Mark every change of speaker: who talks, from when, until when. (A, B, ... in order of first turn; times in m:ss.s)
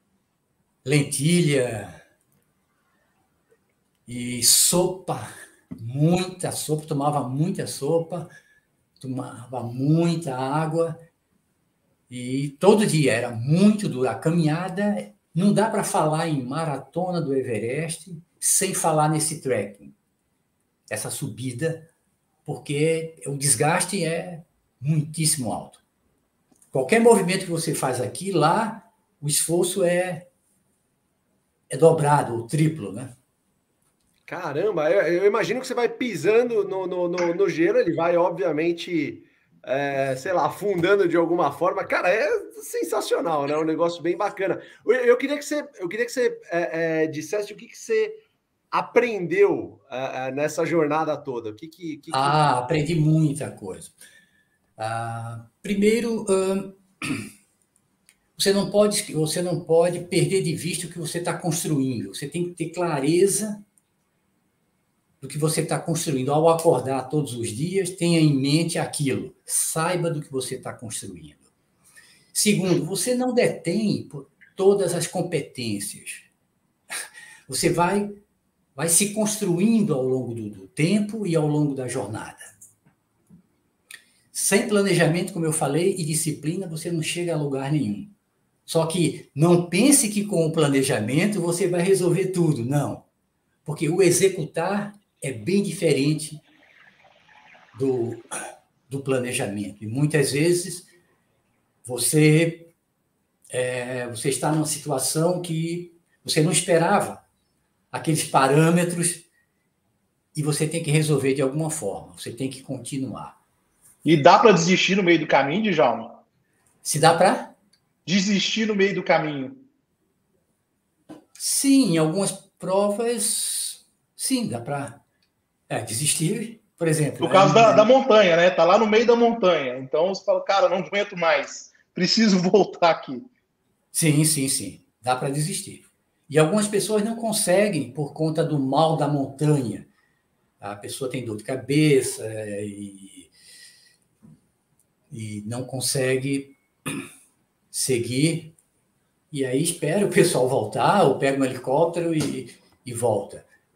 0:00.8-0:02.0 A
0:04.1-0:08.3 A
0:09.0-0:11.0 A
0:12.1-0:19.9 A
0:20.9-0:21.9 A
0:22.4-0:25.8 A
0:26.7-0:30.3 A
0:31.7-0:33.1 A
0:34.3-0:48.2 B
0:48.7-0:52.4 B
0:52.1-0:54.0 A
0:54.8-0:57.3 A
0:58.4-1:03.6 A
1:05.2-1:11.4 A
1:12.3-1:16.3 A
1:17.5-1:18.2 A
1:18.8-1:22.5 A
1:24.3-1:28.1 A
1:28.7-1:33.0 A
1:33.6-1:36.4 A
1:37.7-1:38.2 A
1:38.9-1:40.9 A
1:41.8-1:42.7 A
1:43.5-1:47.2 A
1:47.9-1:49.3 A
1:50.3-1:53.4 A
1:54.0-1:56.2 C
1:56.8-1:57.6 A
1:58.1-1:59.6 C
2:01.4-2:05.0 A
2:05.7-2:07.9 A
2:07.2-2:13.3 C
2:13.9-2:19.9 A
2:20.6-2:23.3 A
2:25.1-2:27.0 A
2:27.7-2:28.6 A
2:29.3-2:33.5 A